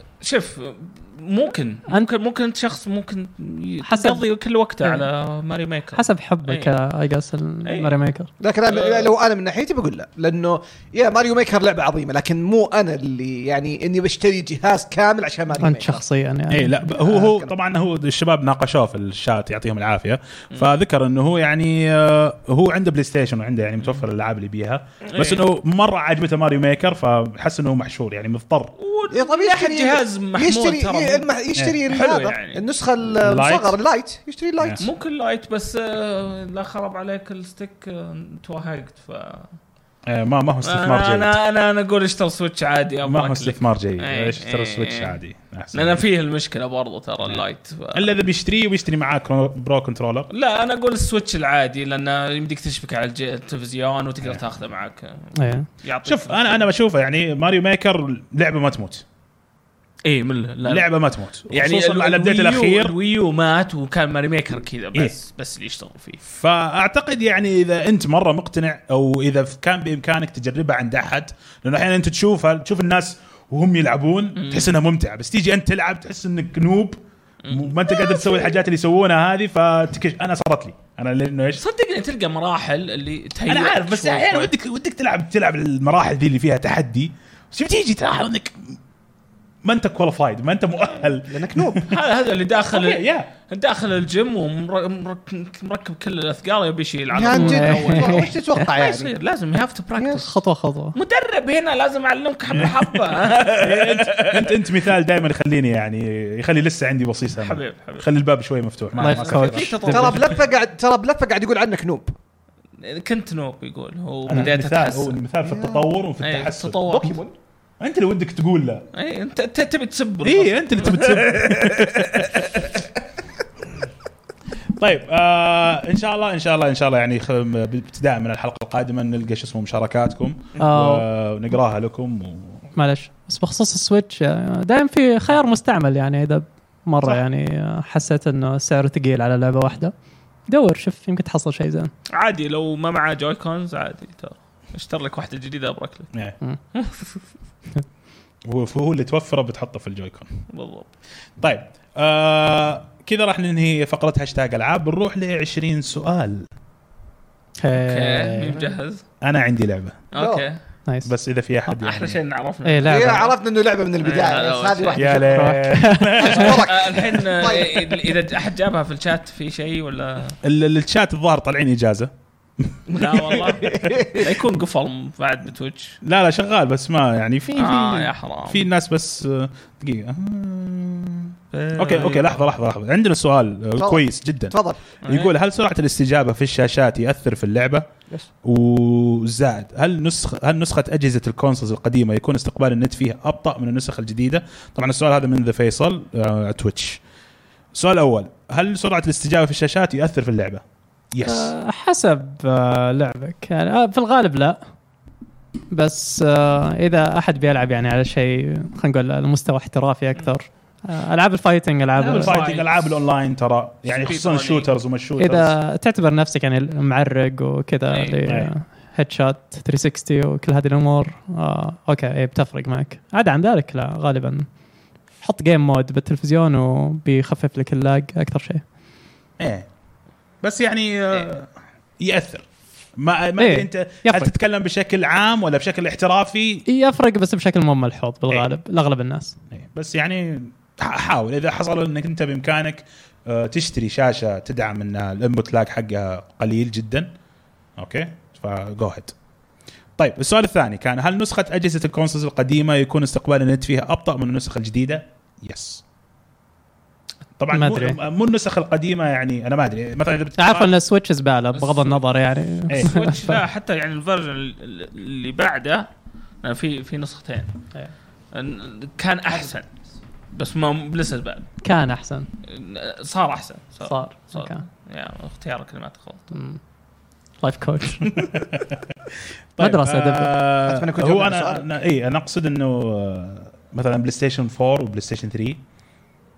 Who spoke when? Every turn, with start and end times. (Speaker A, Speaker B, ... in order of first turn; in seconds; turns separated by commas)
Speaker A: 0.2-6.7, Speaker B: 3.9-4.2, Speaker B: 6.0-8.3, Speaker A: 7.7-7.9, Speaker C: 8.4-16.0, Speaker A: 8.7-9.1, Speaker B: 15.6-16.8, Speaker D: 16.5-28.7, Speaker C: 16.9-17.5, Speaker A: 25.1-25.4, Speaker A: 28.8-31.3, Speaker C: 29.1-34.8, Speaker A: 31.9-32.6, Speaker D: 33.1-33.8, Speaker D: 34.6-34.8, Speaker A: 34.8-39.5, Speaker D: 40.1-41.3, Speaker A: 40.6-45.2, Speaker D: 43.0-46.0, Speaker A: 45.7-48.1, Speaker D: 47.9-50.3, Speaker A: 50.3-56.6, Speaker B: 55.4-55.7, Speaker D: 56.0-59.0, Speaker A: 60.0-60.9, Speaker D: 60.6-62.9, Speaker A: 61.5-66.2, Speaker D: 66.2-81.6, Speaker A: 74.4-74.7, Speaker A: 77.4-78.4, Speaker A: 81.6-84.5, Speaker D: 83.5-88.8, Speaker D: 89.6-91.9, Speaker C: 91.3-91.9, Speaker A: 91.9-100.3, Speaker D: 92.7-93.3, Speaker C: 97.1-99.1, Speaker B: 97.3-98.3, Speaker B: 100.2-101.0, Speaker A: 101.0-104.6, Speaker D: 102.5-103.0, Speaker D: 103.5-110.0, Speaker A: 107.4-108.1, Speaker B: 109.0-110.2, Speaker A: 109.0-110.4, Speaker C: 109.8-112.1, Speaker A: 112.8-115.2, Speaker D: 114.3-116.8, Speaker C: 115.4-115.8, Speaker A: 116.2-117.2, Speaker C: 116.8-117.3, Speaker D: 117.8-118.9, Speaker A: 118.9-122.7, Speaker D: 120.2-122.5, Speaker D: 124.8-132.6, Speaker B: 130.6-131.1, Speaker B: 132.8-139.9, Speaker B: 140.5-141.9, Speaker A: 142.1-146.1, Speaker A: 146.7-147.2, Speaker D: 148.4-150.3, Speaker A: 150.5-150.9, Speaker D: 151.4-156.5, Speaker B: 157.6-158.7, Speaker A: 157.7-159.0, Speaker D: 159.2-160.0, Speaker A: 160.1-160.6, Speaker C: 160.2-160.5, Speaker B: 160.9-161.1, Speaker D: 161.1-162.2, Speaker A: 161.8-163.3, Speaker B: 162.7-163.3, Speaker C: 162.9-165.4, Speaker A: 164.0-165.2, Speaker D: 164.9-166.6, Speaker B: 165.2-166.5, Speaker C: 166.2-168.1, Speaker A: 166.3-170.4, Speaker D: 170.4-173.8, Speaker A: 172.9-176.0, Speaker C: 173.5-174.3, Speaker D: 176.0-187.9, Speaker A: 177.6-178.7, Speaker A: 181.5-182.5, Speaker C: 183.8-184.8, Speaker A: 185.0-185.3, Speaker D: 188.4-197.0, Speaker D: 197.7-201.5, Speaker B: 201.2-204.6, Speaker B: 205.7-212.3, Speaker D: 212.0-215.6, Speaker A: 212.1-212.9, Speaker A: 213.9-214.7, Speaker B: 215.2-224.5, Speaker A: 217.9-218.2, Speaker D: 218.3-218.5, Speaker B: 225.2-228.6, Speaker D: 229.4-229.7, Speaker D: 230.4-236.6, Speaker B: 233.4-234.3, Speaker B: 236.7-239.4, Speaker D: 238.3-238.6, Speaker D: 239.5-247.1, Speaker D: 247.8-249.1, Speaker D: 250.0-255.8, Speaker D: 257.4-260.7, Speaker B: 257.5-258.0, Speaker B: 260.4-263.4, Speaker A: 261.6-262.0, Speaker D: 262.7-263.0, Speaker A: 262.7-265.9, Speaker A: 266.4-267.5, Speaker A: 268.3-269.8, Speaker A: 270.3-271.5, Speaker B: 271.6-272.3, Speaker A: 272.5-276.3, Speaker B: 273.8-274.6, Speaker B: 276.3-276.6, Speaker B: 277.4-278.1, Speaker D: 278.3-278.8, Speaker D: 279.6-285.6, Speaker B: 279.6-280.4, Speaker C: 280.7-281.7